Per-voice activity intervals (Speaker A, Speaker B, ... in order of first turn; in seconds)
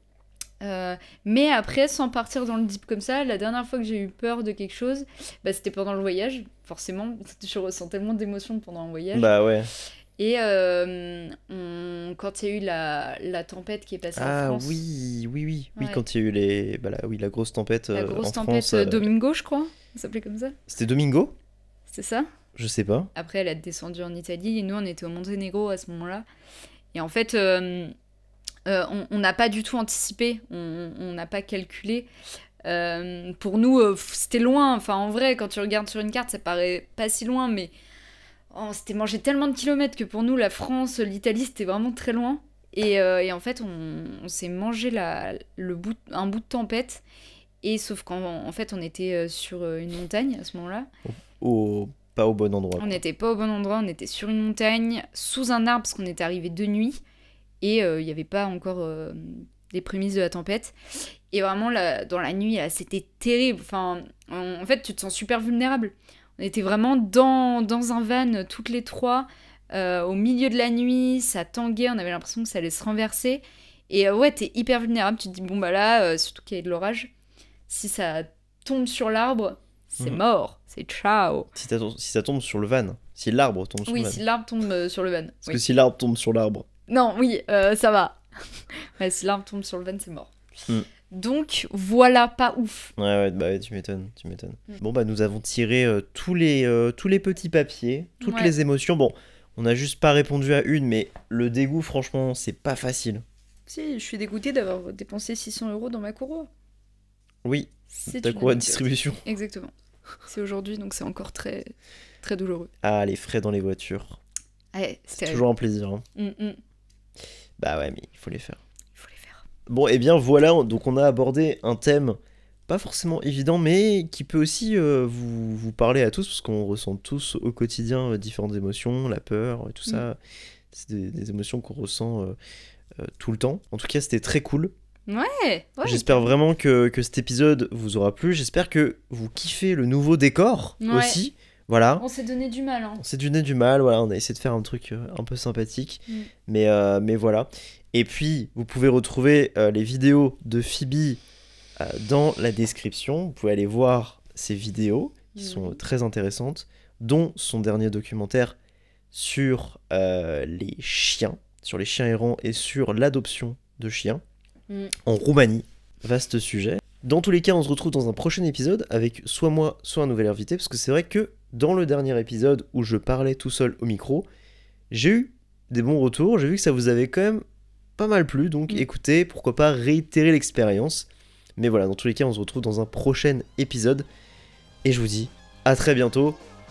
Speaker A: 0.6-9.4, 10.2-14.8, 17.9-20.6, 21.9-22.3, 23.1-26.2, 26.9-27.9, 28.7-32.1, 32.6-37.7, 38.5-47.0, 47.6-50.9, 52.8-57.0, 57.6-77.1, 77.7-81.5, 83.9-85.6, 86.9-90.3, 91.1-92.9, 98.2-98.5, 103.7-106.5, 107.9-109.7, 110.3-112.7, 114.7-115.4, 116.2-116.6, 119.0-119.4, 135.1-136.3, 140.8-141.2, 142.0-143.0, 155.3-155.8, 164.7-164.9
Speaker B: 9.1-9.7, 14.2-19.1, 20.7-21.4, 22.6-23.1, 51.1-53.0, 81.5-84.2, 85.5-86.7, 93.0-103.2, 107.5-109.2, 112.8-114.2, 115.1-116.0, 117.6-118.6, 119.7-130.2, 130.7-132.4, 133.0-134.7, 135.8-142.1, 143.0-151.2, 151.8-158.6, 159.1-164.2, 165.0-174.3, 174.9-177.4, 178.0-184.1, 184.8-186.4